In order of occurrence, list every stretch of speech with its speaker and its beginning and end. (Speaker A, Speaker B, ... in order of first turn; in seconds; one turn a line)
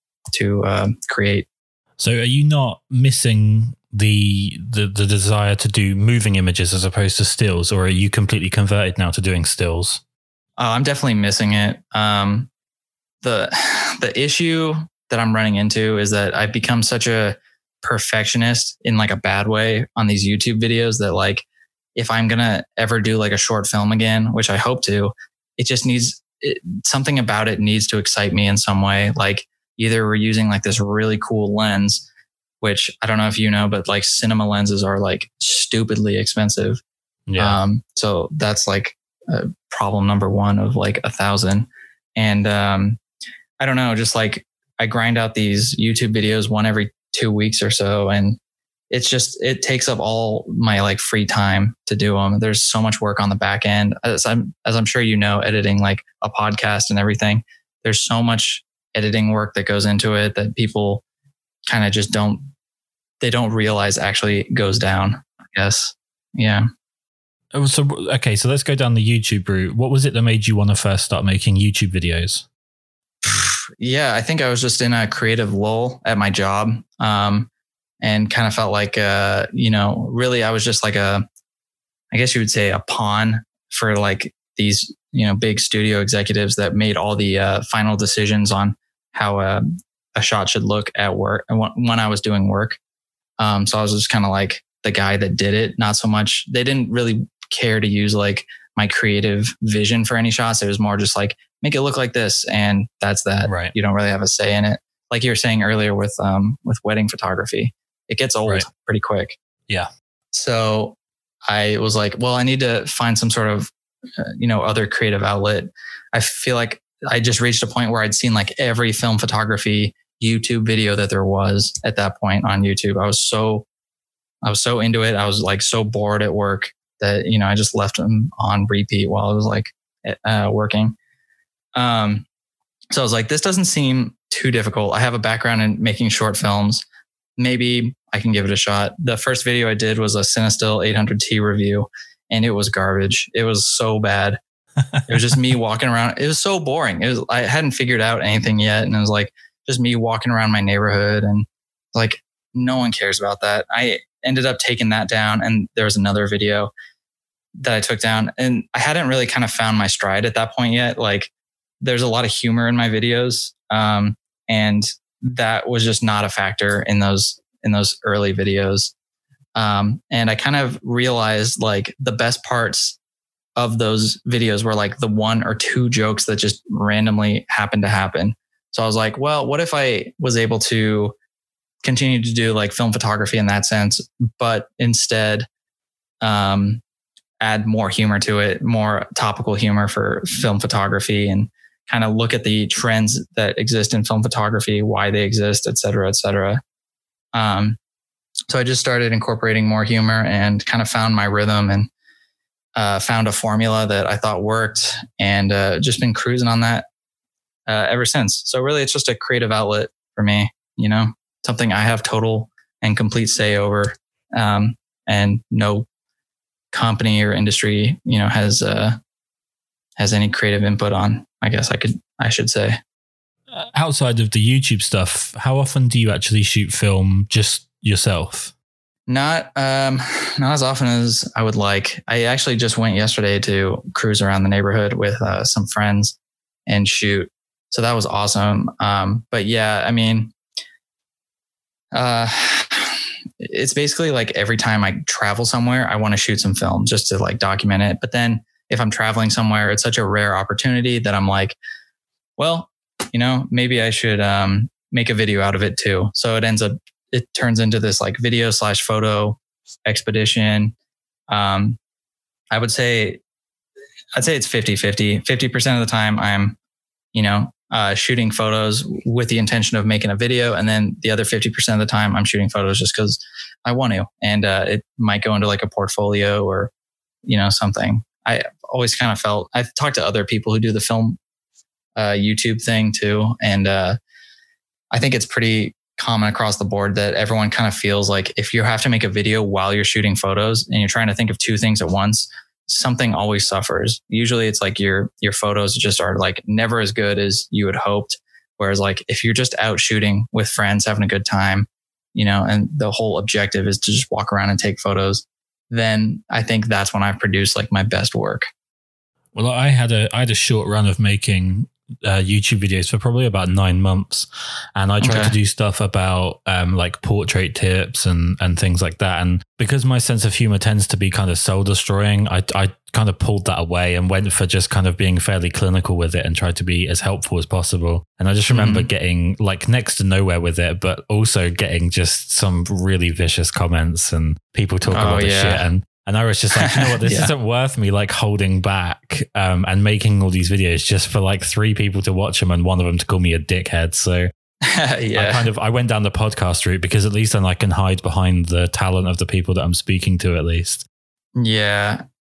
Speaker A: 0.3-1.5
Speaker B: 2.0-10.0
Speaker A: 10.6-12.5
Speaker A: 13.2-21.4
Speaker A: 21.9-32.0
Speaker A: 32.6-36.8
Speaker B: 37.3-37.6
Speaker A: 37.4-43.0
Speaker A: 43.6-48.4
Speaker A: 48.9-61.0
Speaker A: 61.6-62.5
Speaker A: 63.2-66.7
Speaker B: 67.5-72.5
Speaker A: 73.2-77.5
Speaker A: 78.0-81.2
Speaker A: 82.1-89.6
Speaker A: 90.1-92.8
Speaker A: 93.4-109.3
Speaker B: 103.4-103.7
Speaker A: 110.3-111.0
Speaker A: 111.5-123.7
Speaker A: 124.4-130.9
Speaker A: 131.8-132.2
Speaker A: 132.9-136.8
Speaker A: 137.4-144.4
Speaker B: 144.9-145.4
Speaker A: 145.1-156.7
Speaker A: 157.6-168.9
Speaker A: 169.6-173.0
Speaker A: 173.6-181.1
Speaker A: 181.8-185.5
Speaker A: 186.2-186.8
Speaker A: 187.4-196.6
Speaker A: 197.3-197.8
Speaker A: 198.5-201.9
Speaker A: 202.8-206.8
Speaker A: 207.7-215.9
Speaker A: 216.7-219.0
Speaker A: 220.0-222.8
Speaker B: 223.5-228.5
Speaker A: 229.1-236.2
Speaker A: 236.7-240.3
Speaker A: 241.9-251.6
Speaker A: 252.4-260.7
Speaker A: 261.3-261.8
Speaker A: 262.5-263.2
Speaker A: 264.1-266.6
Speaker A: 267.1-276.7
Speaker A: 277.2-281.2
Speaker A: 281.9-284.0
Speaker A: 284.9-308.4
Speaker B: 309.3-344.3
Speaker A: 315.0-315.3
Speaker A: 328.5-328.9
Speaker A: 334.9-335.6
Speaker A: 336.6-337.3
Speaker A: 344.6-345.5
Speaker B: 345.1-350.8
Speaker A: 351.4-352.0